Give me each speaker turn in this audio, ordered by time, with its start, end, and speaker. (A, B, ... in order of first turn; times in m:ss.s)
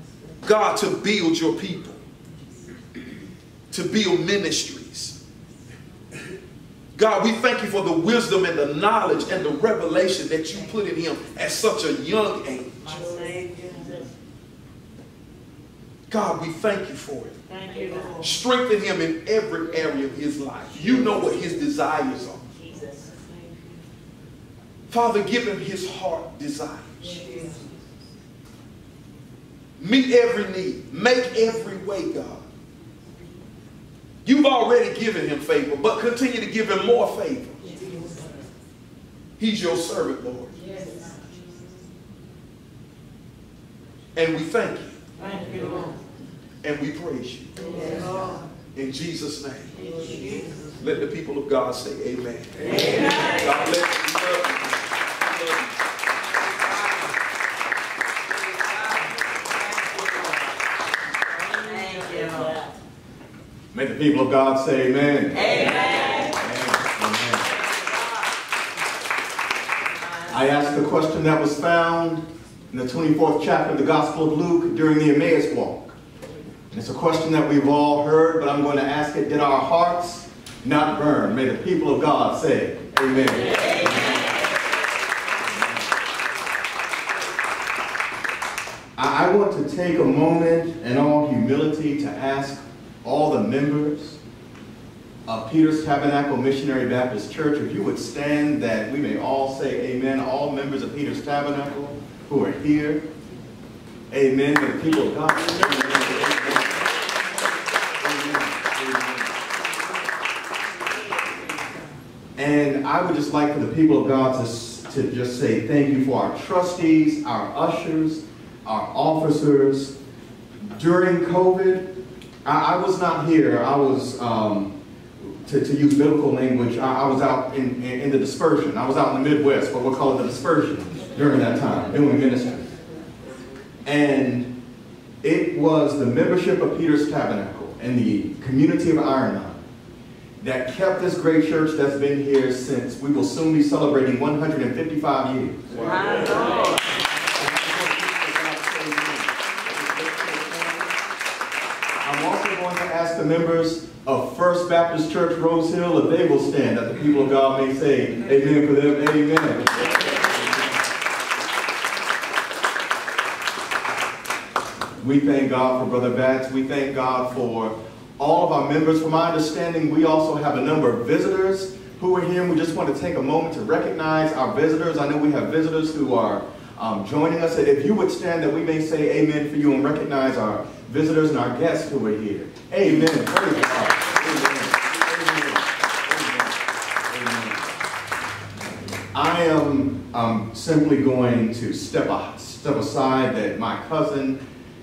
0:00.4-0:02.0 A
0:03.7-0:05.2 A
0:07.0-0:12.8 A
0:16.1-0:17.4 A
0:18.2-0:22.4 A
0:24.9-0:27.1 A
0:29.8-0:32.4 A
0:34.2-0:37.7 A
0:39.4-0:40.5 A
0:40.8-0:41.4 B
0:44.2-0:45.0 A
0:45.2-0:46.0 B
0:46.6-0:47.6 A
0:47.9-0:48.4 B
0:48.8-0:49.7 A
0:50.1-0:50.5 B
0:50.8-0:55.7 A
0:52.9-0:53.3 B
0:56.3-0:57.2 B
0:58.2-1:00.6 B
1:01.3-1:02.7 B
1:03.7-1:05.4 C
1:05.3-1:06.4 B
1:06.3-1:07.5 C
1:07.4-1:08.3 B
1:10.3-1:16.0 C
1:16.7-1:24.0 C
1:29.0-1:34.2 C
1:35.3-1:43.1 C
1:44.1-1:46.8 C
1:48.0-1:49.3 C
1:52.4-2:00.0 C
2:00.8-2:04.8 C
2:05.4-2:12.7 C
2:13.8-2:14.5 C
2:15.2-2:19.6 C
2:20.4-2:25.8 C
2:25.8-2:27.0 B
2:27.4-2:29.3 C
2:29.9-2:30.6 C
2:32.0-2:39.8 C
2:45.0-3:06.5 C
3:07.1-3:07.6 C
3:09.1-3:14.4 C